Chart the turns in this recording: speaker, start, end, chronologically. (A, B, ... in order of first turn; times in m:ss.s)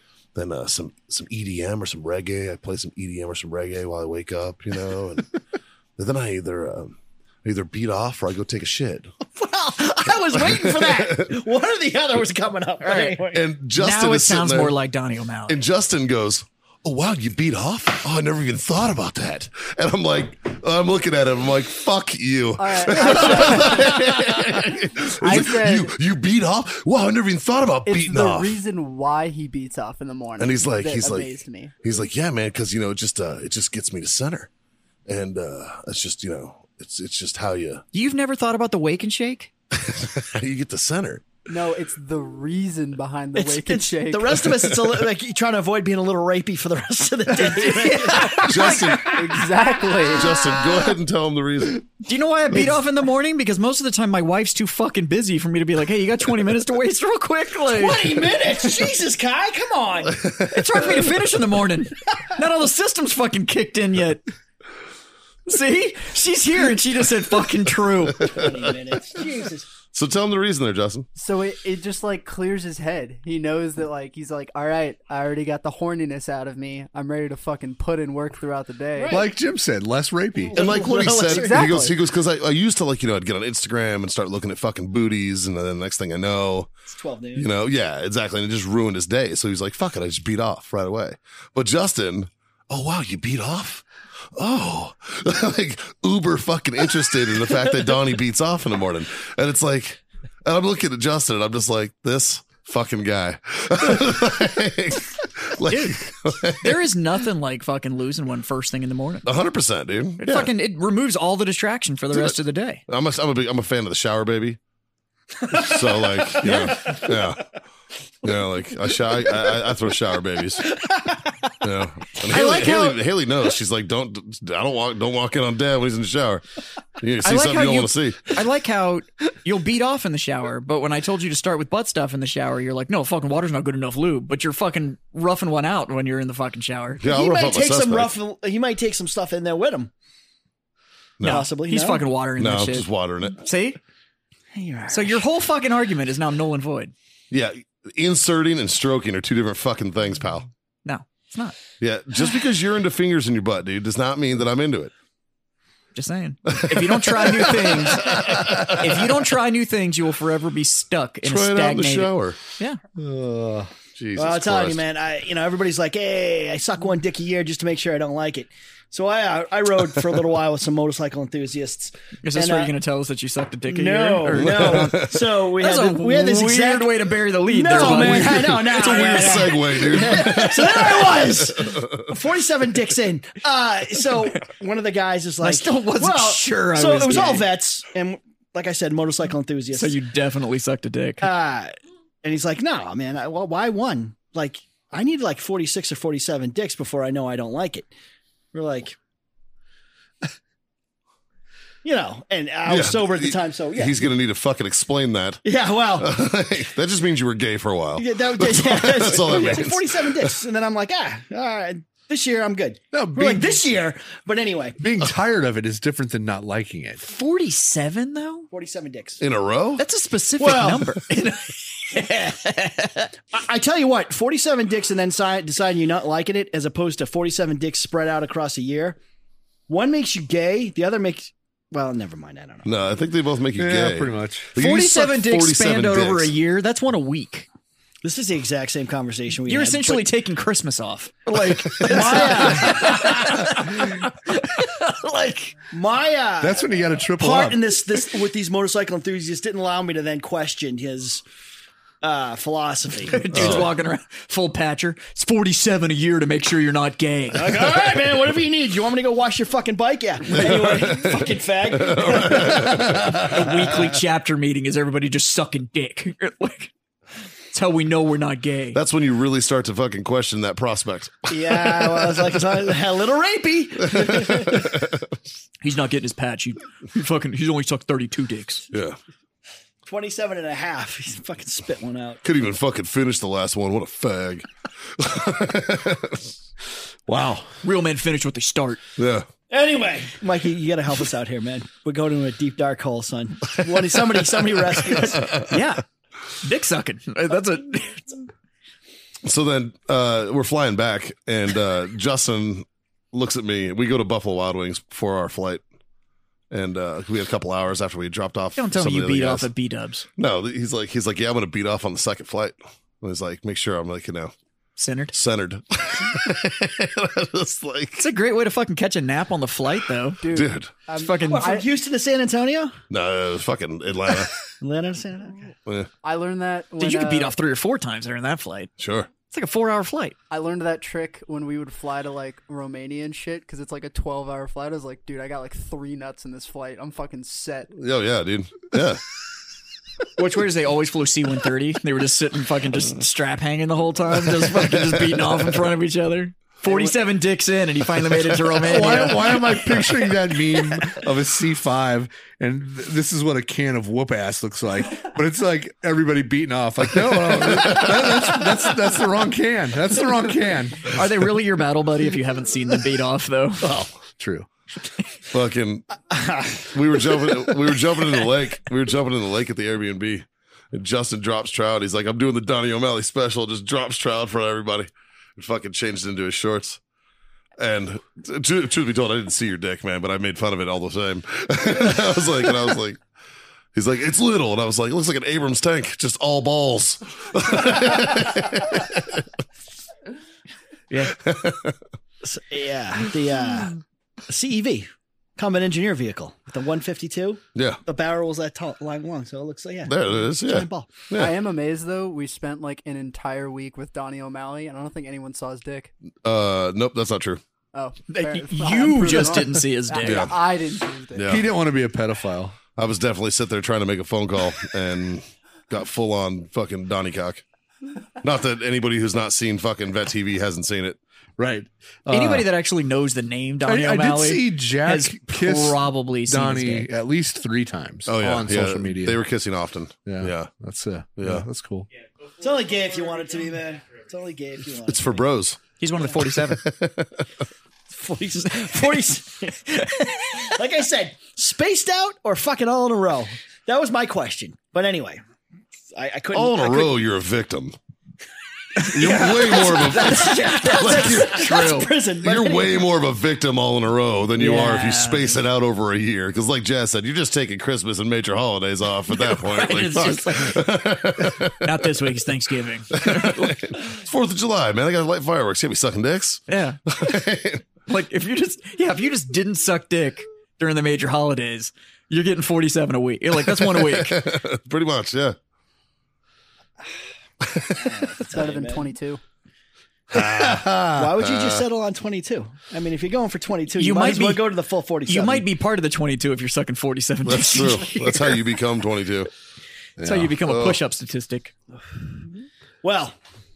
0:00.3-0:05.3 A
0:06.0-0:09.1 A
0:09.3-0:13.4 B
0:10.3-0:11.4 A
0:12.8-0:13.2 C
0:13.3-0:14.7 A
0:13.7-0:15.6 C
0:15.5-0:28.6 A
0:22.6-0:25.9 D
0:27.8-0:31.7 D
0:30.4-0:34.5 A
0:35.1-0:37.8 A
0:37.9-0:39.5 C
0:39.8-0:41.2 A
0:41.5-0:44.4 D
0:43.4-0:49.3 B
0:47.7-0:50.4 D
0:47.8-0:48.9 C
0:48.4-0:49.2 A
0:50.1-0:51.9 A
0:52.0-0:58.3 C
0:57.7-1:00.3 B
1:00.4-1:04.2 C
1:05.4-1:08.5 C
1:08.2-1:09.7 B
1:09.9-1:11.1 A
1:11.2-1:19.2 D
1:18.9-1:19.3 B
1:19.1-1:20.6 E
1:20.4-1:21.9 B
1:20.5-1:26.7 A
1:21.3-1:21.9 D
1:26.9-1:27.5 B
1:27.4-1:33.8 A
1:34.3-1:46.8 A
1:45.7-1:49.3 C
1:49.2-1:50.5 A
1:50.2-1:52.8 C
1:52.9-1:54.6 A
1:55.5-1:57.5 A
1:56.4-1:57.1 B
1:56.4-1:56.7 C
1:58.2-2:00.8 A
2:01.6-2:06.4 A
2:02.3-2:03.0 B
2:07.0-2:08.3 A
2:07.2-2:17.0 C
2:17.0-2:18.1 A
2:17.0-2:19.9 B
2:21.2-2:21.4 A
2:21.2-2:22.0 B
2:21.2-2:23.8 C
2:22.4-2:23.4 A
2:24.5-2:25.2 B
2:24.9-2:26.9 C
2:27.3-2:30.5 A
2:30.8-2:31.6 C
2:31.8-2:34.9 A
2:35.9-2:42.8 C
2:36.5-2:38.9 A
2:41.2-2:42.4 A
2:43.0-2:43.7 E
2:44.0-2:44.8 A
2:44.2-2:52.7 B
2:52.2-3:00.8 C
2:53.7-3:09.9 B
2:54.3-2:55.2 A
2:57.7-3:02.1 A
3:05.4-3:07.5 C
3:09.7-3:11.3 C
3:11.2-3:17.9 B
3:18.5-3:19.0 B
3:21.8-3:24.1 B
3:22.6-3:25.4 A
3:25.4-3:26.1 B
3:26.0-3:30.4 A
3:28.0-3:34.8 B
3:32.9-3:33.6 E
3:34.8-3:37.0 E
3:37.0-3:38.5 C
3:38.5-3:39.2 B
3:39.2-3:39.8 A
3:39.8-3:43.1 C
3:40.4-3:41.0 B
3:43.3-3:49.0 B
3:49.7-3:52.7 B
3:52.6-3:56.3 A
3:53.6-3:54.5 E
3:54.6-3:57.5 C
3:58.0-4:00.0 B
3:59.5-4:05.6 C
4:01.5-4:03.5 B
4:05.7-4:11.2 B
4:06.4-4:07.8 E
4:12.0-4:13.5 B
4:13.0-4:17.7 C
4:13.3-4:13.7 A
4:17.3-4:23.4 B
4:20.3-4:23.4 A
4:23.0-4:26.7 C
4:27.5-4:28.8 C
4:28.7-4:32.2 A
4:31.3-4:34.7 B
4:33.9-4:35.0 A
4:35.6-4:38.6 C
4:38.7-4:39.0 A
4:39.8-4:42.2 B
4:42.2-4:44.5 A
4:45.0-4:46.2 A
4:47.1-4:47.5 E
4:47.6-4:48.8 C
4:49.0-4:49.3 A
4:49.5-4:55.4 B
4:54.9-4:55.5 A
4:55.5-4:55.8 C
4:56.3-4:58.3 C
4:59.2-5:05.6 A
5:06.5-5:09.5 A
5:08.6-5:10.1 C
5:10.2-5:14.3 A
5:14.8-5:15.1 C
5:15.1-5:18.0 A
5:18.0-5:20.2 C
5:20.2-5:21.6 D
5:20.3-5:20.7 A
5:21.0-5:21.5 C
5:21.2-5:22.7 B
5:22.9-5:24.3 A
5:24.6-5:25.5 B
5:26.0-5:27.3 D
5:26.8-5:28.7 C
5:28.8-5:29.1 A
5:29.3-5:30.2 C
5:30.3-5:37.7 D
5:37.7-5:39.0 A
5:40.2-5:49.6 C
5:48.6-6:01.0 E
5:57.5-5:58.3 A
6:00.9-6:03.8 C
6:04.0-6:04.5 E
6:05.3-6:06.1 A
6:06.1-6:06.6 B
6:06.7-6:16.8 A
6:17.6-6:23.0 A
6:23.7-6:29.2 A
6:30.9-6:31.2 C
6:31.1-6:31.8 A
6:32.2-6:41.0 B
6:37.5-6:37.8 A
6:39.8-6:41.3 A
6:41.1-6:45.9 D
6:46.2-6:47.4 A
6:47.7-6:51.4 D
6:48.1-6:50.3 C
6:50.0-6:50.3 A
6:51.2-6:51.4 A
6:51.2-6:52.6 E
6:52.8-6:57.4 A
6:58.2-7:01.0 A
7:01.4-7:02.5 E
7:02.1-7:06.9 C
7:03.6-7:09.2 E
7:08.1-7:10.5 A
7:10.0-7:11.9 E
7:11.2-7:11.4 A
7:12.4-7:15.2 B
7:14.9-7:15.6 A
7:15.8-7:16.6 C
7:16.5-7:17.2 A
7:17.9-7:25.2 B
7:19.8-7:20.5 C
7:25.9-7:27.0 B
7:26.3-7:27.7 A
7:28.8-7:32.8 B
7:28.8-7:31.6 A
7:29.1-7:31.9 C
7:32.2-7:41.7 A
7:34.4-7:35.4 C
7:39.1-7:43.6 C
7:42.9-7:47.6 A
7:46.5-7:46.8 C
7:47.9-7:54.2 C
7:53.6-7:55.4 A
7:57.4-7:57.8 A
7:57.7-7:58.9 B
7:58.2-7:59.2 D
8:00.1-8:01.6 A
8:00.3-8:01.1 E
8:00.9-8:05.4 B
8:03.7-8:04.5 C
8:05.0-8:08.4 C
8:07.2-8:09.3 A
8:10.0-8:10.4 E
8:10.0-8:11.5 C
8:10.4-8:10.8 A
8:12.8-8:13.2 B